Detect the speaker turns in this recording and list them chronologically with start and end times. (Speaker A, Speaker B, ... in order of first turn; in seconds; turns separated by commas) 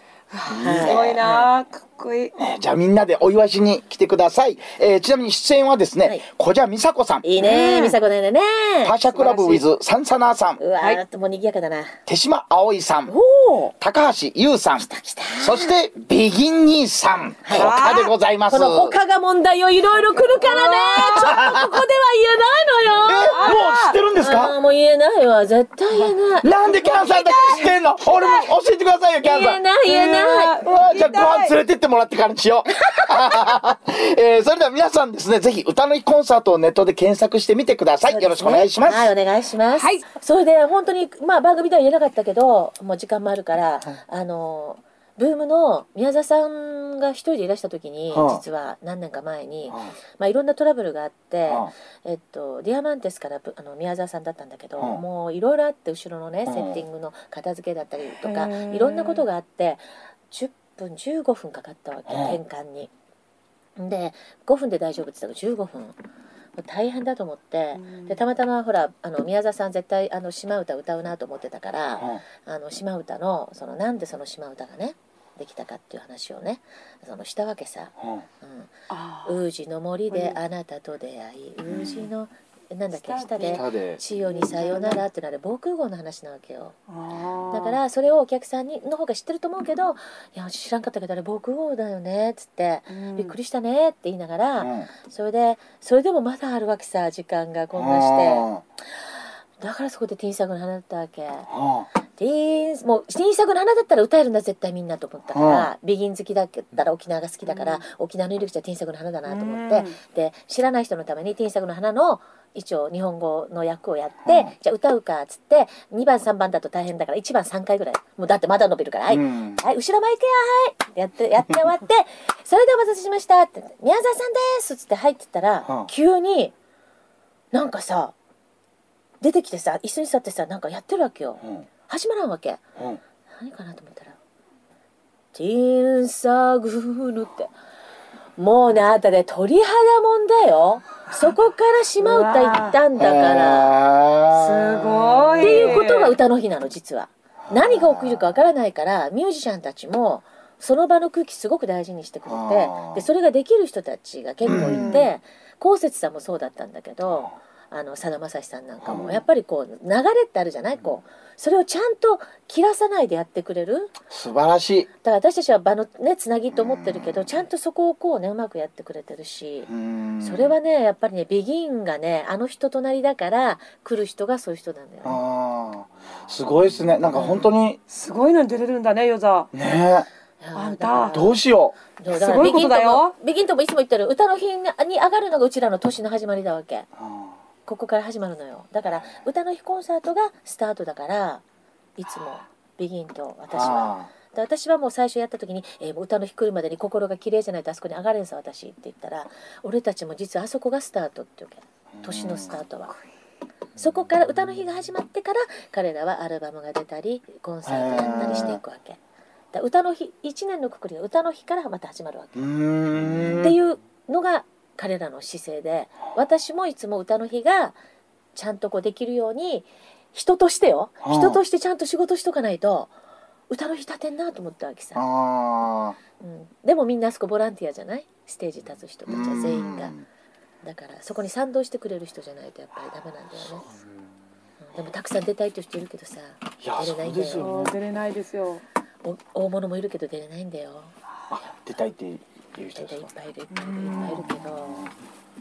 Speaker A: 0.3-2.3, Speaker B: 0.5-1.2, Speaker C: 0.5-1.4, Speaker B: 2.4-7.2, Speaker C: 7.2-8.9, Speaker A: 7.4-8.0, Speaker B: 8.8-10.6, Speaker A: 9.1-9.6, Speaker C: 10.6-11.9, Speaker B: 12.1-13.1, Speaker C: 13.1-13.7, Speaker B: 13.8-14.9, Speaker C: 14.8-15.7, Speaker B: 15.4-18.9, Speaker C: 17.4-23.5, Speaker A: 17.5-18.1, Speaker A: 20.4-21.3, Speaker B: 21.0-21.8, Speaker B: 23.0-24.5, Speaker A: 23.3-24.0, Speaker C: 24.2-26.5, Speaker B: 26.4-29.6, Speaker A: 26.6-28.5, Speaker C: 29.2-30.6, Speaker A: 29.9-31.5, Speaker B: 30.6-39.1, Speaker C: 33.0-33.3, Speaker C: 38.1-62.9, Speaker A: 39.8-40.0, Speaker B: 48.1-48.4, Speaker B: 56.5-56.8, Speaker A: 58.2-59.2, Speaker B: 62.1-62.4, Speaker C: 63.8-65.9, Speaker C: 66.6-78.7, Speaker A: 67.8-68.1, Speaker B: 78.0-78.2, Speaker A: 78.9-79.3, Speaker C: 79.2-86.8, Speaker B: 81.7-82.1, Speaker A: 82.9-83.6, Speaker B: 83.5-84.0, Speaker A: 84.3-85.0, Speaker A: 86.9-87.8, Speaker C: 87.5-98.5, Speaker A: 92.9-93.3, Speaker B: 94.6-94.9, Speaker B: 97.7-98.6, Speaker C: 99.6-101.5, Speaker B: 101.5-101.9, Speaker C: 102.2-126.5, Speaker B: 105.3-105.7, Speaker A: 109.3-110.0, Speaker B: 114.2-114.5, Speaker B: 119.1-119.6, Speaker C: 127.5-128.1, Speaker C: 129.2-132.6, Speaker C: 133.3-134.2, Speaker C: 135.3-137.5, Speaker C: 138.4-143.7, Speaker A: 142.0-142.8, Speaker B: 142.9-145.7, Speaker A: 144.3-146.2, Speaker C: 145.4-163.9, Speaker B: 147.5-148.2, Speaker B: 152.3-153.0, Speaker B: 154.4-155.0, Speaker A: 154.5-155.0, Speaker B: 158.8-159.2, Speaker B: 164.1-164.9, Speaker C: 165.0-169.7, Speaker B: 166.6-167.2, Speaker B: 169.7-170.5, Speaker C: 170.2-175.2, Speaker B: 175.0-177.8, Speaker A: 177.9-179.5, Speaker B: 179.5-180.1, Speaker C: 180.4-181.3, Speaker A: 180.5-181.3, Speaker B: 181.1-181.7, Speaker C: 182.0-186.9, Speaker A: 182.1-183.1, Speaker B: 187.0-187.3, Speaker C: 187.7-191.4, Speaker C: 192.0-202.9, Speaker B: 193.5-194.1, Speaker B: 202.0-202.5, Speaker C: 203.8-209.0, Speaker B: 207.7-208.6, Speaker C: 209.5-212.5, Speaker B: 212.3-213.6, Speaker C: 213.4-217.8, Speaker C: 218.3-222.9, Speaker B: 221.0-221.4, Speaker C: 223.5-225.0, Speaker B: 224.9-226.0, Speaker C: 226.2-229.9, Speaker B: 229.1-230.0, Speaker C: 230.6-233.7, Speaker C: 234.6-237.5, Speaker B: 236.6-237.8, Speaker A: 237.3-238.6, Speaker C: 239.0-240.9, Speaker B: 241.3-243.1, Speaker C: 242.8-244.9, Speaker A: 243.6-244.0, Speaker B: 243.8-244.9